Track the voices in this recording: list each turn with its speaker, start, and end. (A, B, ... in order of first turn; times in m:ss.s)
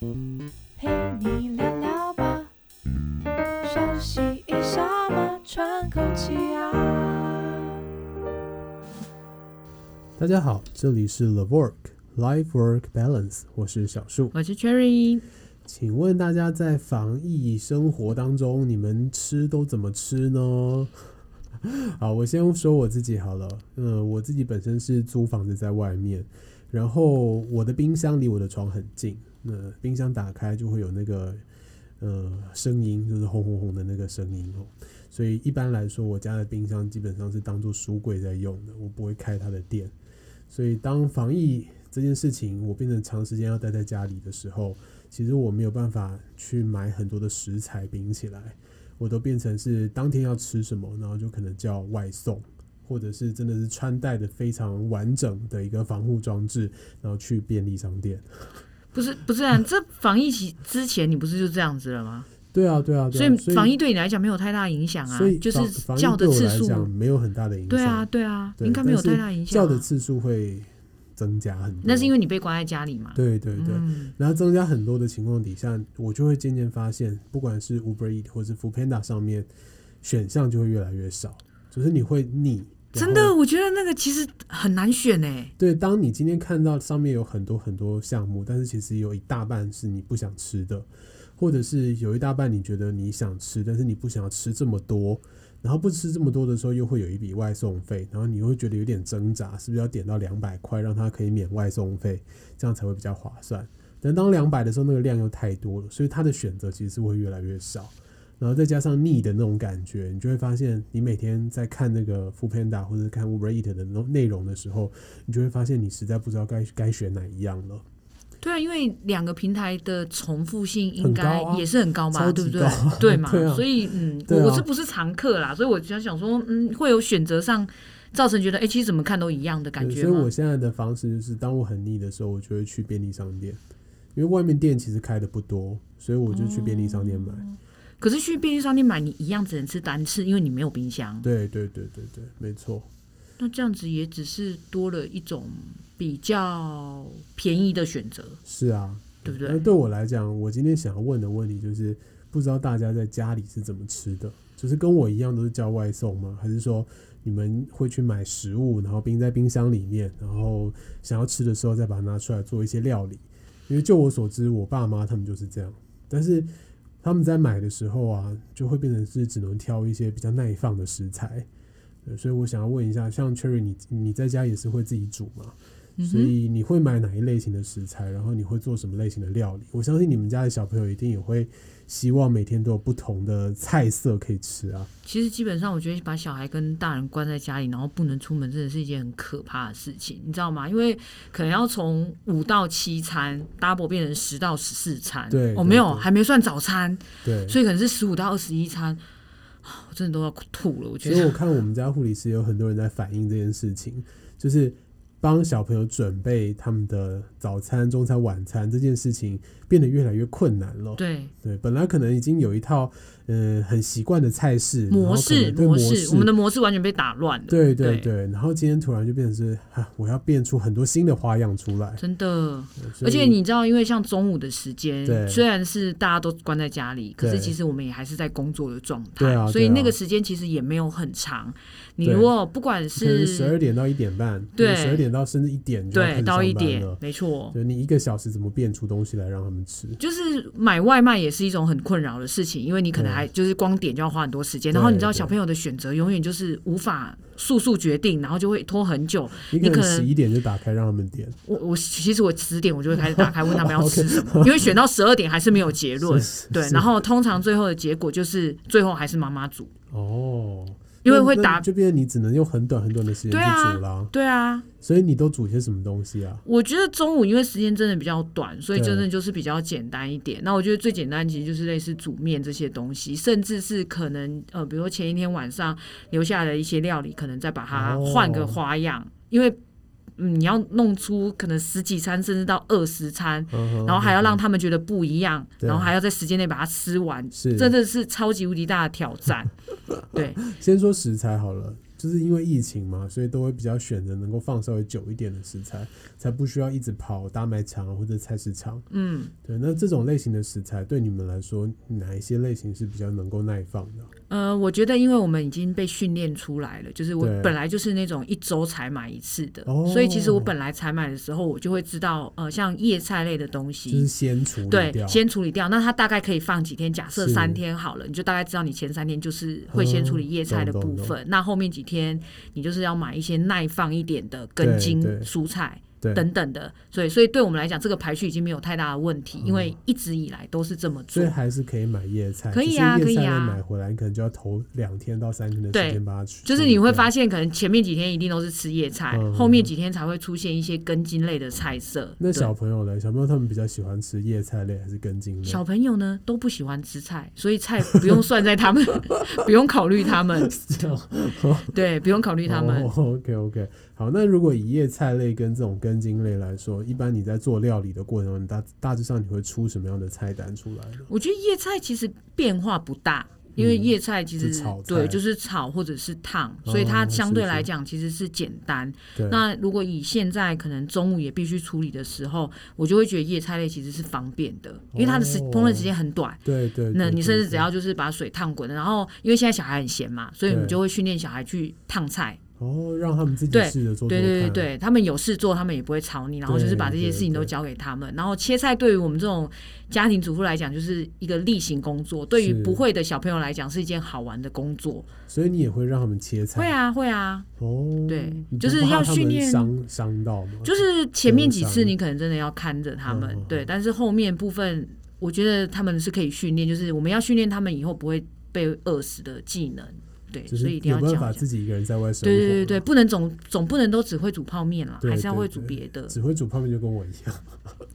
0:00.8-0:02.5 A
0:03.6-0:07.8 A
0:10.2-0:14.3 B
0:14.3-0:15.2 C
0:15.6-0:21.0 B
0:21.6-0:31.4 B
0:32.0-0:39.9 B
0:40.5-0:58.5 B
0:58.9-1:02.3 C
1:02.5-1:03.7 B
1:03.1-1:06.9 C
1:05.1-1:12.1 B
1:07.7-1:09.9 C
1:11.8-1:14.1 C
1:13.1-1:19.5 B
1:20.0-1:23.4 B
1:22.9-1:25.5 C
1:25.6-1:57.8 B
1:58.4-2:10.3 C
2:01.0-2:04.7 B
2:09.8-2:13.6 B
2:14.1-2:17.4 B
2:16.3-2:21.3 C
2:21.2-2:22.9 B
2:23.4-2:28.4 C
2:28.4-2:46.5 B
2:29.2-2:29.6 C
2:47.0-2:51.5 B
2:52.0-3:04.9 B
2:56.0-2:56.3 C
3:05.0-3:19.0 C
3:15.3-3:16.1 B
3:17.2-3:17.6 B
3:19.6-3:21.4 C
3:21.0-3:36.3 B
3:31.0-3:31.3 C
3:34.9-3:38.1 C
3:37.5-3:42.0 B
3:42.0-3:53.6 C
3:42.8-3:43.4 B
3:45.0-3:45.4 B
3:47.2-3:47.6 B
3:49.2-3:50.0 B
3:52.0-3:52.3 B
3:52.9-4:00.0 B
3:54.5-3:55.1 C
3:55.9-3:57.6 C
4:00.0-4:10.1 C
4:02.9-4:03.3 B
4:04.7-4:05.4 B
4:09.5-4:11.4 B
4:11.4-4:19.7 C
4:13.0-4:14.7 B
4:16.0-4:16.9 B
4:19.9-4:24.1 B
4:21.0-4:21.6 C
4:23.3-4:24.6 C
4:24.8-4:26.4 B
4:26.4-4:39.6 C
4:28.7-4:29.1 B
4:37.7-4:38.6 B
4:40.2-4:49.5 C
4:43.5-4:44.4 B
4:45.6-4:45.9 B
4:47.3-4:47.8 B
4:50.1-4:58.8 B
4:50.1-4:50.4 C
4:58.9-4:59.3 C
4:59.4-5:04.1 B
5:04.3-5:14.1 C
5:07.2-5:07.6 B
5:09.6-5:10.5 B
5:13.9-5:15.2 B
5:14.7-5:31.3 C
5:17.1-5:17.6 B
5:19.7-5:21.2 B
5:24.6-5:25.3 B
5:26.0-5:26.3 B
5:29.4-5:29.8 B
5:31.1-5:37.1 B
5:32.5-5:33.6 C
5:35.7-5:42.5 C
5:39.1-5:39.7 B
5:42.2-5:45.6 B
5:45.4-5:50.6 C
5:47.9-5:48.2 B
5:50.2-5:51.8 B
5:51.7-5:52.9 C
5:52.4-6:01.1 B
6:01.1-6:16.4 C
6:03.6-6:05.2 B
6:06.6-6:07.7 B
6:09.1-6:09.4 B
6:14.9-6:15.9 B
6:16.4-6:17.7 B
6:16.9-6:22.4 C
6:20.4-6:20.8 B
6:22.6-6:24.7 B
6:23.5-6:35.1 C
6:26.4-6:27.5 B
6:32.3-6:32.8 B
6:35.3-6:36.7 B
6:36.5-6:37.5 C
6:37.6-6:41.9 B
6:38.1-6:39.7 C
6:40.6-6:51.4 C
6:43.0-6:43.7 B
6:50.5-6:52.8 B
6:52.2-6:56.2 C
6:55.0-6:57.7 B